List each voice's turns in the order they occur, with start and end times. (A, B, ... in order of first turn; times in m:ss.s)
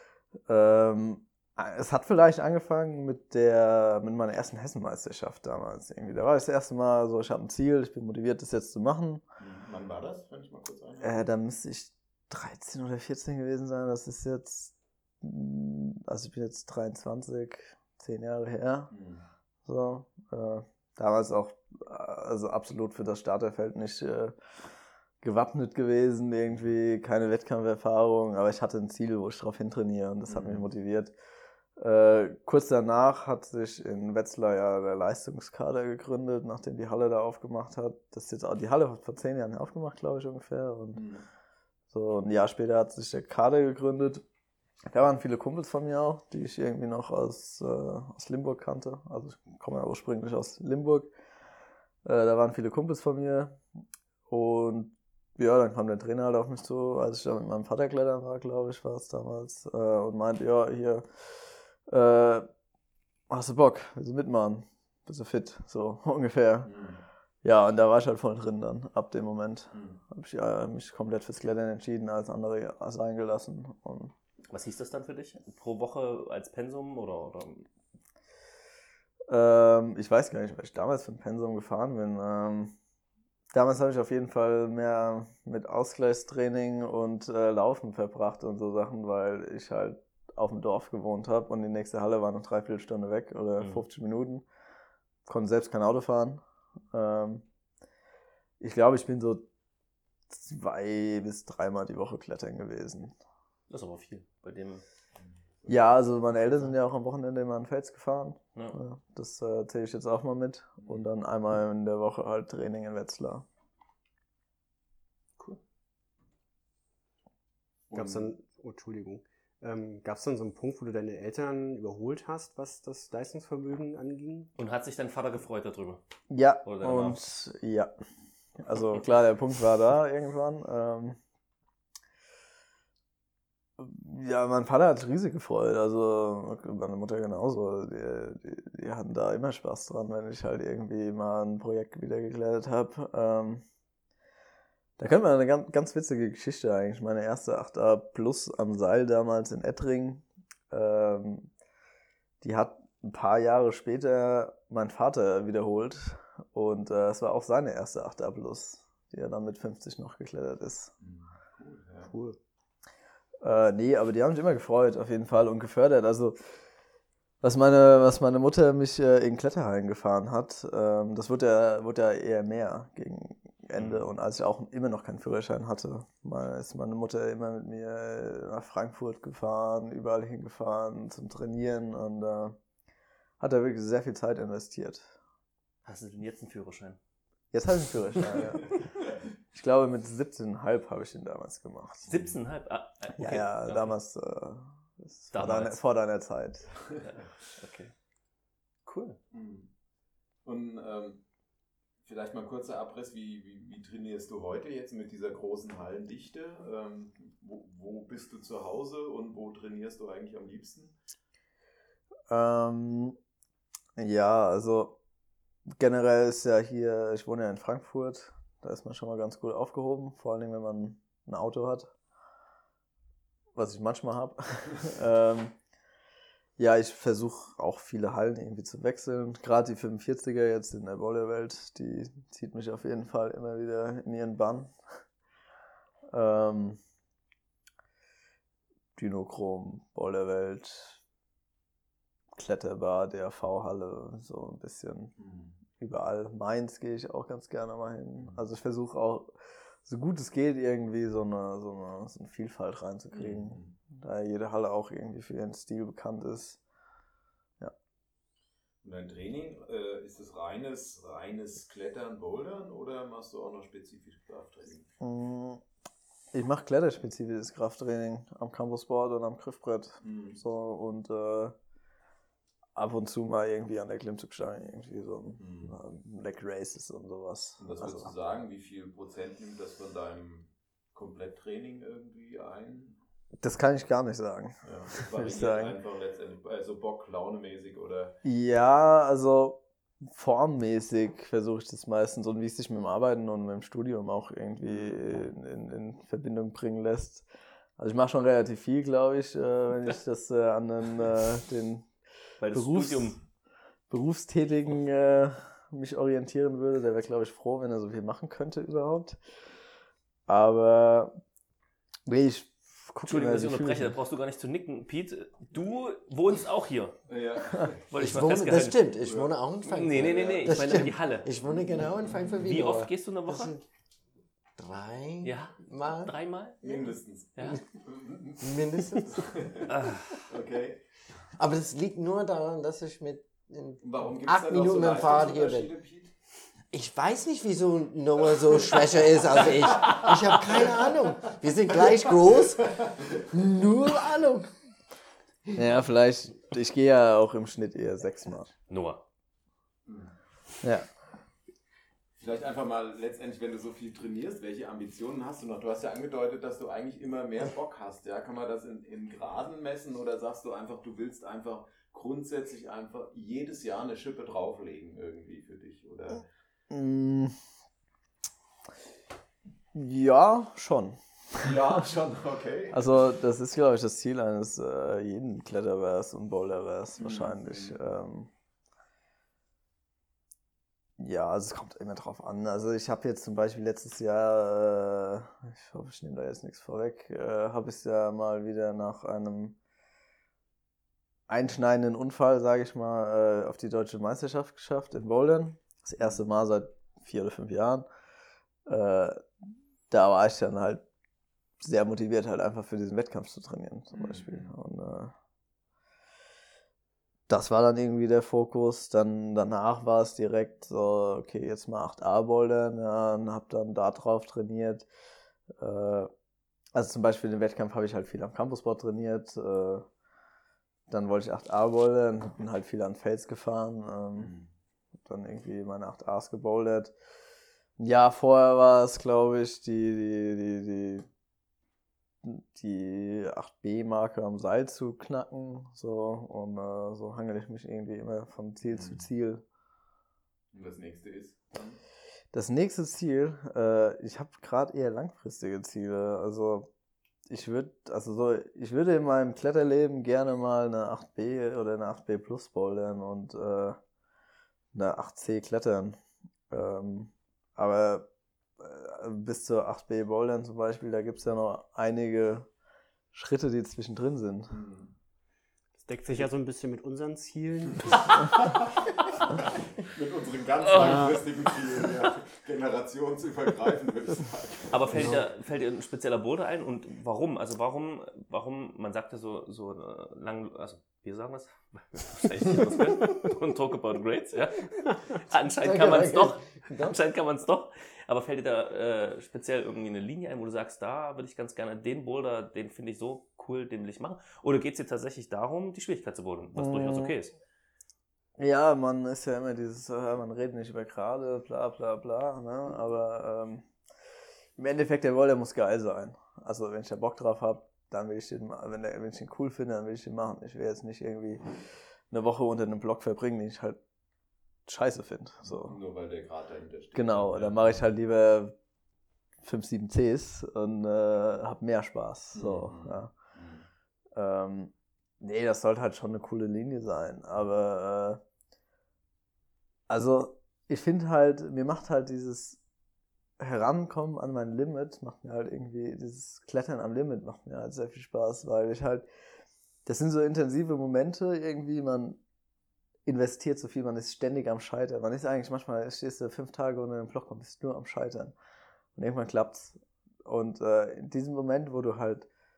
0:00.5-0:09.2 A
0:09.4-0:11.3 B
0:11.0-0:18.9 A
0:18.9-0:19.2 B
0:19.6-0:24.3 A
0:25.2-0:31.1 A
0:30.3-0:30.6 B
0:31.8-0:41.0 A
0:40.9-0:41.2 B
0:41.9-0:44.2 A
0:44.9-0:51.1 A
0:52.0-0:53.6 A
0:54.3-1:02.5 A
1:03.3-1:06.7 A
1:06.6-1:07.0 B
1:07.4-1:14.1 A
1:09.7-1:10.0 B
1:14.5-1:17.7 C
1:19.3-1:22.7 A
1:23.5-1:34.4 A
1:33.6-1:33.8 C
1:35.3-1:37.4 A
1:38.6-1:39.4 A
1:40.3-1:43.1 A
1:43.7-1:44.8 C
1:45.7-1:53.4 A
1:57.9-1:58.3 B
1:57.9-2:04.5 D
2:04.6-2:06.0 C
2:06.3-2:07.9 A
2:06.6-2:07.2 C
2:08.6-2:11.2 A
2:13.8-2:23.6 A
2:25.0-2:31.5 A
2:32.4-2:40.9 A
2:41.0-2:42.1 B
2:42.0-2:42.4 D
2:43.4-2:46.4 A
2:47.4-3:02.6 A
2:53.8-2:54.0 C
3:03.4-3:05.1 A
3:05.8-3:07.0 C
3:07.5-3:08.8 A
3:09.5-3:12.2 A
3:12.1-3:13.9 C
3:13.2-3:16.7 A
3:15.3-3:15.8 C
3:17.0-3:17.9 C
3:18.8-3:19.2 C
3:19.3-3:19.7 B
3:20.4-3:21.2 B
3:22.0-3:31.0 B
3:32.3-3:33.2 A
3:34.0-3:35.0 A
3:35.7-3:41.9 A
3:43.5-3:45.5 A
3:46.6-3:54.7 A
3:56.1-3:56.8 A
3:59.0-4:01.0 A
4:02.3-4:05.1 A
4:05.2-4:05.6 B
4:05.8-4:09.3 A
4:09.8-4:16.6 A
4:13.1-4:13.8 B
4:18.8-4:24.9 B
4:25.0-4:25.6 A
4:26.3-4:31.6 A
4:30.0-4:30.4 B
4:32.8-4:38.1 A
4:35.4-4:35.8 B
4:37.6-4:43.0 B
4:43.4-4:45.8 A
4:44.6-4:48.2 B
4:48.2-4:57.3 A
4:54.6-4:55.2 B
4:57.8-5:01.9 A
5:02.4-5:03.2 C
5:02.5-5:03.2 A
5:03.9-5:09.2 A
5:10.3-5:11.1 A
5:12.0-5:14.0 A
5:13.0-5:17.0 C
5:17.1-5:17.8 B
5:17.9-5:18.9 C
5:17.9-5:23.6 E
5:19.0-5:19.3 B
5:19.6-5:21.3 C
5:21.4-5:22.3 B
5:22.4-5:23.6 C
5:24.6-5:26.1 E
5:25.2-5:27.6 C
5:26.6-5:29.7 B
5:28.4-5:29.3 E
5:29.7-5:30.2 C
5:30.3-5:30.8 B
5:31.4-5:35.7 E
5:33.8-5:36.1 B
5:36.7-5:44.5 E
5:39.4-5:40.5 B
5:42.6-5:43.2 B
5:45.5-5:48.5 A
5:48.7-5:49.0 C
5:49.8-5:50.1 B
5:50.6-5:50.9 A
5:52.2-6:06.2 B
6:06.7-6:07.4 A
6:09.7-6:11.6 A
6:11.4-6:13.0 B
6:12.7-6:18.3 A
6:17.0-6:17.8 B
6:21.0-6:29.6 A
6:31.3-6:37.8 A
6:38.6-6:39.2 A
6:39.9-6:40.8 A
6:41.6-6:45.1 A
6:43.9-6:44.5 B
6:47.3-6:54.9 A
6:55.6-6:56.1 A
6:56.7-6:59.8 A
7:00.9-7:04.3 A
7:04.2-7:04.5 B
7:05.0-7:06.9 A
7:07.8-7:11.0 A
7:12.2-7:19.4 A
7:18.7-7:19.0 B
7:20.5-7:21.8 B
7:22.3-7:26.7 A
7:27.3-7:33.8 A
7:34.7-7:38.1 A
7:38.6-7:42.5 A
7:43.1-7:44.5 A
7:44.5-7:44.9 B
7:45.8-7:48.4 D
7:47.9-7:48.5 B
7:49.3-7:55.1 B
7:50.6-7:51.1 C
7:50.8-7:51.3 D
7:54.7-8:17.4 C
7:54.9-7:55.2 D
8:05.6-8:07.0 E
8:16.6-8:17.1 A
8:18.4-8:23.7 A
8:24.6-8:31.4 A
8:32.1-8:33.8 A
8:34.7-8:35.8 A
8:35.4-8:37.8 B
8:36.9-8:38.6 A
8:39.4-8:43.1 A
8:42.3-8:43.7 B
8:44.1-8:48.2 A
8:49.9-8:52.6 A
8:53.4-8:59.0 A
8:59.8-9:02.2 A
9:03.0-9:08.3 A
9:08.9-9:12.3 A